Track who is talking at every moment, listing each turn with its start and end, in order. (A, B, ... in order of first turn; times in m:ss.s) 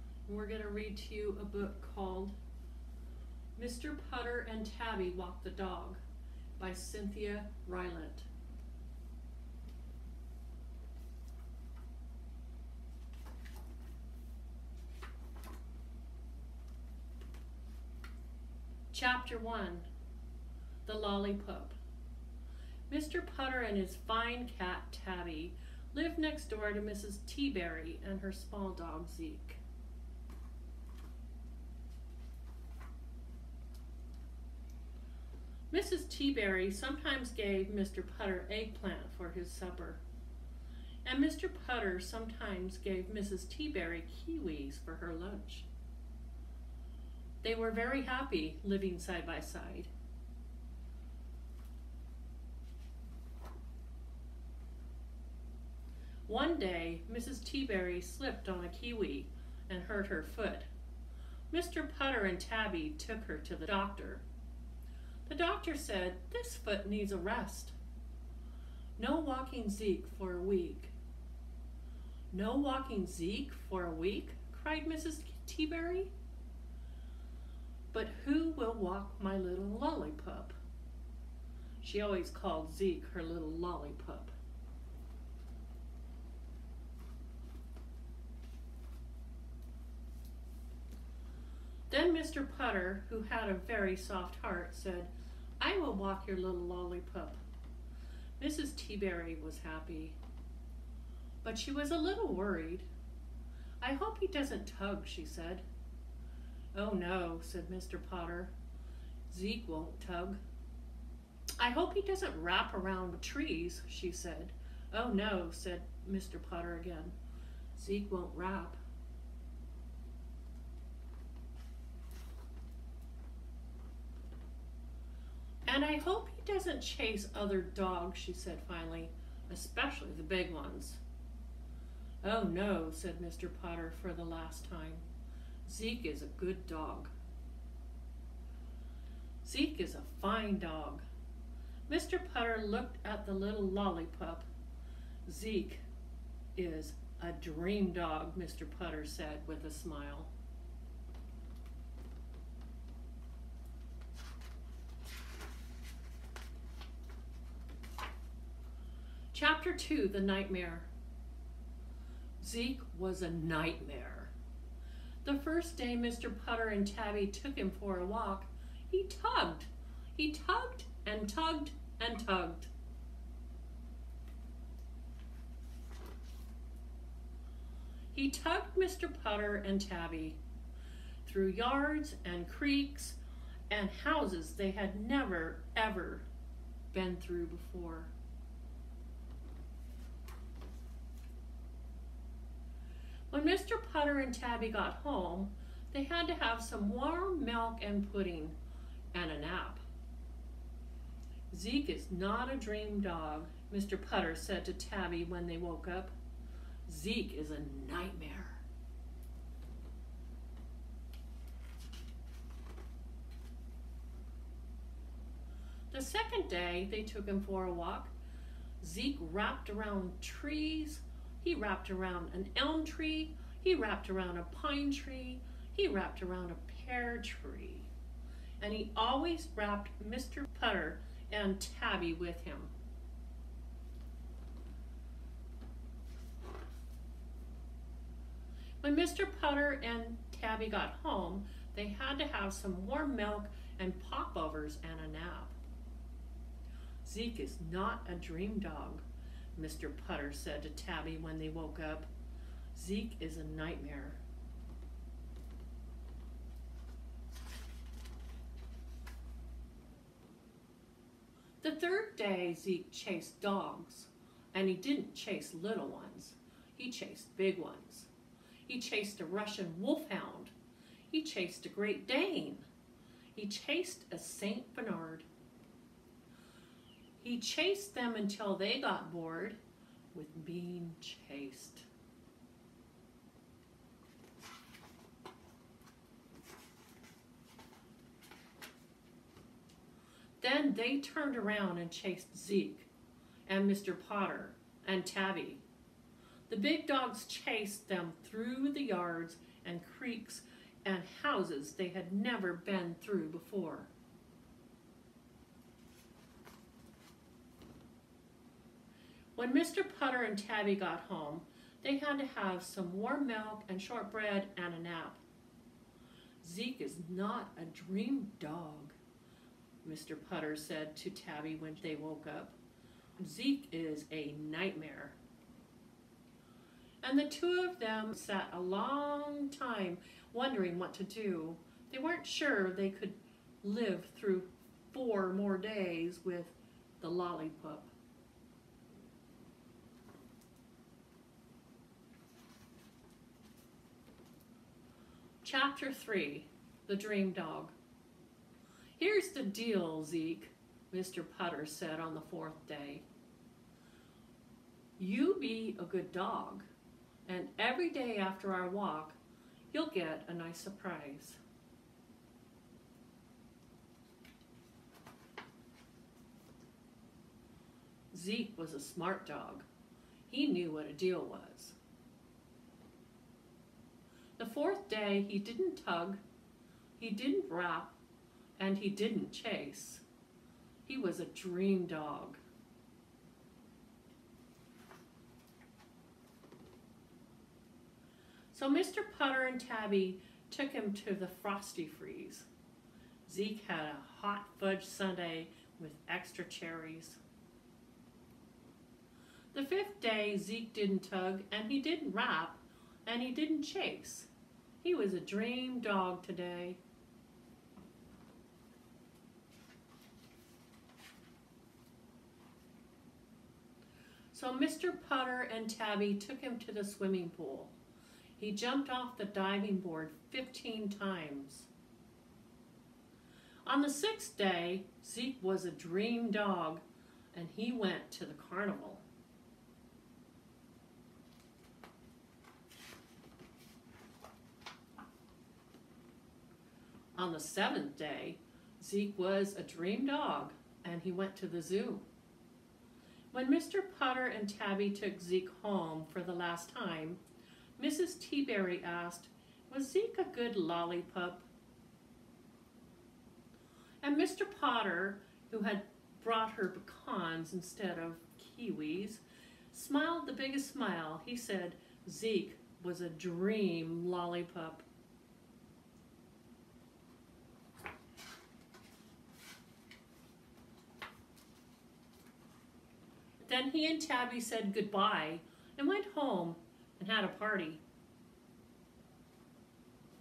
0:00.3-0:02.4 A
0:03.6-0:06.0 A
0:06.6-0:08.3 A
0:18.9-0:19.9 A
0:20.8-0:21.8 A
0:22.9-0:29.6 A
0:35.7-0:40.0 A
0:41.0-0:45.7 A
0:47.4-0:49.9 A
0:56.3-1:00.7 A
1:01.5-1:04.2 A
1:05.3-1:07.8 A
1:09.0-1:11.0 A
1:12.3-1:16.1 A
1:17.9-1:20.6 A
1:21.8-1:24.3 A
1:31.9-1:37.4 A
1:38.4-1:40.2 A
1:41.4-1:42.9 A
1:43.8-1:45.6 A
1:46.7-1:48.5 A
1:49.3-1:50.4 A
1:51.6-1:57.2 A
1:57.8-1:58.8 A
2:05.7-2:11.0 A
2:12.2-2:15.0 A
2:15.6-2:17.1 A
2:19.4-2:21.0 A
2:21.9-2:24.5 A
2:25.2-2:25.8 A
2:26.6-2:30.3 A
2:39.3-2:40.9 A
2:42.4-2:44.3 A
2:45.2-2:52.7 A
2:58.1-3:00.4 A
3:01.2-3:06.3 A
3:06.9-3:08.1 A
3:13.3-3:18.6 A
3:19.1-3:19.8 A
3:21.5-3:26.1 A
3:26.9-3:28.6 A
3:35.9-3:38.1 A
3:38.8-3:47.9 A
3:48.6-3:52.7 A
3:58.8-4:05.6 A
4:07.0-4:09.0 A
4:09.6-4:12.1 A
4:12.7-4:14.2 A
4:21.6-4:28.1 A
4:28.7-4:30.5 A
4:31.1-4:32.7 A
4:33.3-4:35.3 A
4:37.2-4:39.6 A
4:40.1-4:41.9 A
4:50.4-4:52.9 A
4:53.5-4:55.6 A
4:56.5-5:03.9 A
5:09.4-5:15.2 A
5:16.4-5:19.0 A
5:19.8-5:22.6 A
5:23.2-5:25.2 A
5:27.0-5:37.9 A
5:45.4-5:47.8 A
5:49.0-5:53.0 A
5:55.0-5:56.6 A
5:57.3-5:59.2 A
5:59.7-6:01.4 A
6:08.1-6:09.7 A
6:10.3-6:11.8 A
6:14.4-6:16.2 A
6:17.0-6:18.0 A
6:18.6-6:20.0 A
6:20.8-6:22.4 A
6:28.5-6:32.5 A
6:33.3-6:37.2 A
6:39.5-6:44.3 A
6:44.8-6:46.8 A
6:54.3-6:57.8 A
6:58.4-7:01.7 A
7:03.7-7:09.0 A
7:17.2-7:22.0 A
7:23.3-7:27.2 A
7:27.8-7:31.5 A
7:34.0-7:44.8 A
7:53.4-7:57.8 A